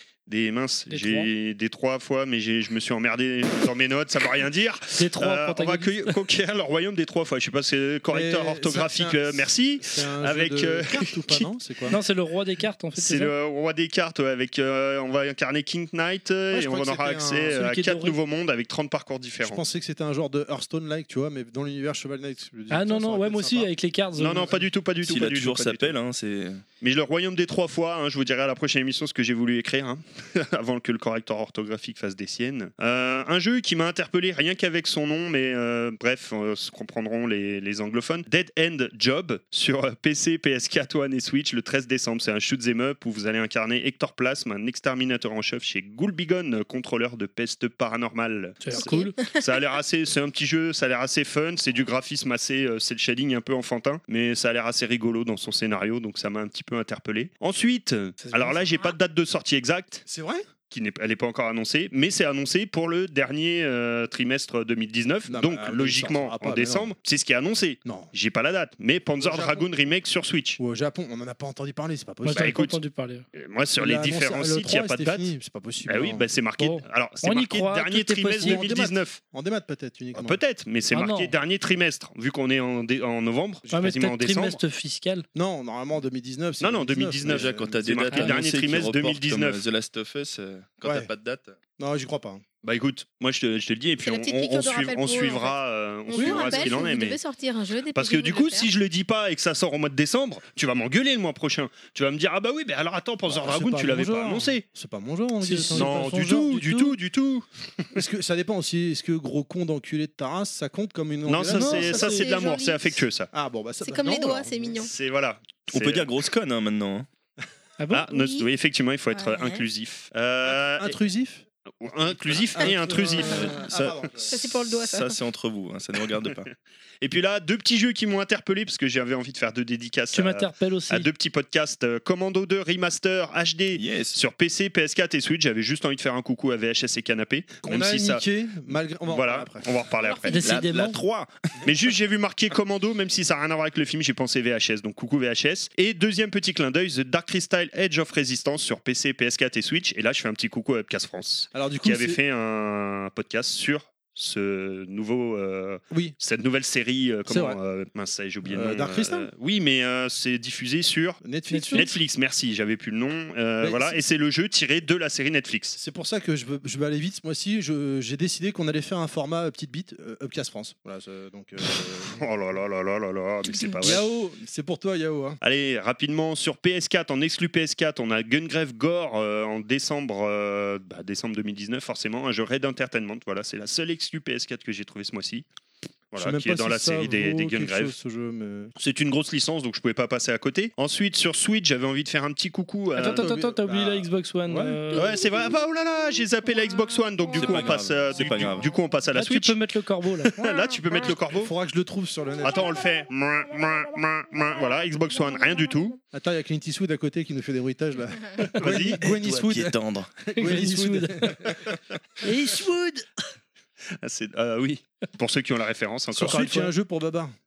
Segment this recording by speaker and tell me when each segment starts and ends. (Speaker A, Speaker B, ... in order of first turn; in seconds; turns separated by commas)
Speaker A: 0.3-11.5, Speaker B: 0.9-1.3, Speaker B: 5.0-6.1, Speaker C: 8.1-12.0, Speaker B: 11.9-13.3, Speaker A: 12.9-19.6, Speaker C: 16.5-17.6, Speaker B: 17.5-18.2, Speaker C: 19.4-23.7, Speaker B: 22.7-24.6, Speaker A: 24.1-25.9, Speaker D: 25.0-26.6, Speaker A: 26.8-60.0, Speaker B: 48.6-49.1, Speaker E: 48.7-49.4, Speaker C: 60.0-60.5, Speaker A: 60.7-70.6, Speaker C: 65.3-66.9, Speaker C: 67.8-68.1, Speaker C: 69.2-69.7, Speaker C: 70.6-72.5, Speaker B: 72.2-73.2, Speaker A: 72.3-72.8, Speaker A: 73.3-75.3, Speaker C: 73.8-76.2, Speaker A: 75.9-79.2, Speaker B: 76.6-78.6, Speaker C: 78.4-80.4, Speaker A: 80.1-84.6, Speaker B: 80.9-81.3, Speaker B: 83.7-85.2, Speaker C: 85.3-87.9, Speaker A: 86.6-89.6, Speaker D: 87.2-91.5, Speaker C: 90.8-91.1, Speaker C: 91.8-92.4, Speaker A: 92.6-97.2, Speaker E: 94.0-95.6, Speaker E: 96.1-98.7, Speaker B: 96.1-96.8, Speaker A: 97.9-104.6, Speaker C: 103.3-106.5, Speaker B: 105.4-107.0, Speaker A: 105.7-107.9, Speaker C: 107.9-112.0, Speaker A: 111.3-113.3, Speaker B: 111.5-112.2, Speaker E: 111.7-113.0, Speaker C: 113.3-114.7, Speaker E: 113.8-114.9, Speaker A: 114.8-116.0, Speaker D: 115.7-117.1, Speaker B: 117.8-118.1, Speaker A: 117.9-121.0, Speaker E: 118.1-118.5, Speaker E: 119.1-119.6, Speaker C: 120.5-124.3, Speaker A: 121.8-123.5, Speaker E: 123.2-123.6, Speaker D: 123.3-126.5, Speaker E: 124.3-125.2, Speaker A: 127.0-138.2, Speaker B: 130.1-131.1, Speaker D: 133.7-134.2, Speaker C: 137.6-139.7, Speaker A: 139.1-140.4, Speaker E: 140.0-140.7, Speaker B: 140.3-141.0, Speaker D: 140.4-141.3, Speaker A: 141.6-161.2, Speaker C: 151.5-152.2, Speaker C: 157.3-157.6, Speaker C: 158.4-159.3, Speaker C: 161.2-161.9, Speaker B: 161.5-161.9, Speaker A: 161.7-165.8, Speaker C: 163.6-164.0, Speaker C: 165.8-172.2, Speaker A: 171.7-174.0, Speaker E: 173.4-173.8, Speaker C: 173.8-175.4, Speaker A: 175.4-185.4, Speaker A: 186.1-187.9, Speaker C: 186.2-188.7, Speaker A: 188.8-193.3, Speaker B: 192.9-195.1, Speaker C: 193.0-194.8, Speaker E: 194.9-195.6, Speaker A: 194.9-199.6, Speaker E: 196.6-197.6, Speaker D: 197.4-198.8, Speaker B: 199.1-200.4, Speaker A: 200.2-201.5, Speaker E: 200.4-200.8, Speaker C: 201.3-202.7, Speaker A: 202.4-206.0, Speaker C: 206.1-209.8, Speaker A: 208.6-209.0, Speaker D: 209.0-210.3, Speaker C: 210.3-211.6, Speaker B: 210.4-211.5, Speaker B: 212.2-213.1, Speaker A: 214.0-216.6, Speaker C: 216.1-217.3, Speaker B: 216.2-216.7